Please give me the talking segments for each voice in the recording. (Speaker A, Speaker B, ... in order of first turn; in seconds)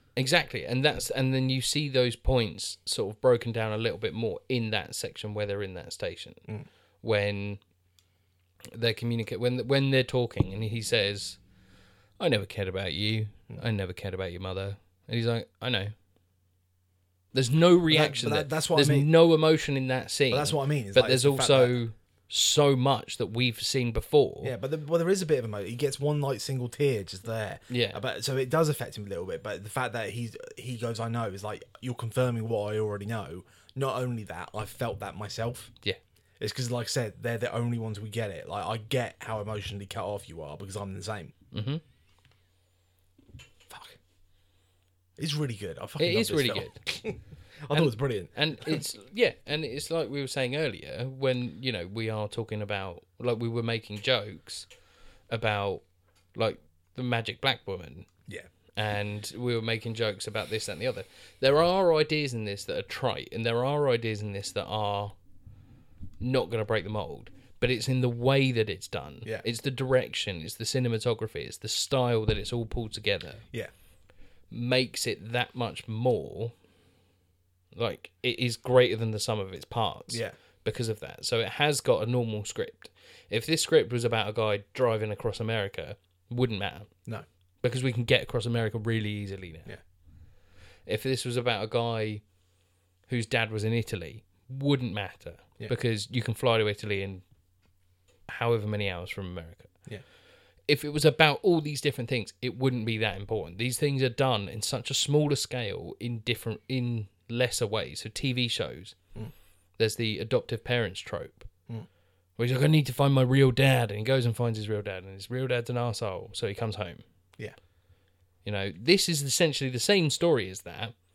Speaker A: 0.1-6.4, 7.0-7.6, 8.7-11.4, 12.2-15.9, 17.3-24.5, 27.7-28.0, 41.5-41.8, 46.0-46.8, 47.7-54.7, 55.3-55.8, 56.3-58.1, 58.8-65.1, 66.2-73.4, 74.5-76.5, 77.7-86.9, 87.6-89.7, 90.8-92.2, 93.1-97.2, 98.3-99.7, 100.7-108.9, 109.8-111.5, 112.4-117.0, 118.4-120.9
Speaker B: 17.9-19.1, 20.3-21.8, 24.4-35.7, 36.4-41.3, 43.7-44.0, 45.2-48.8, 80.1-80.3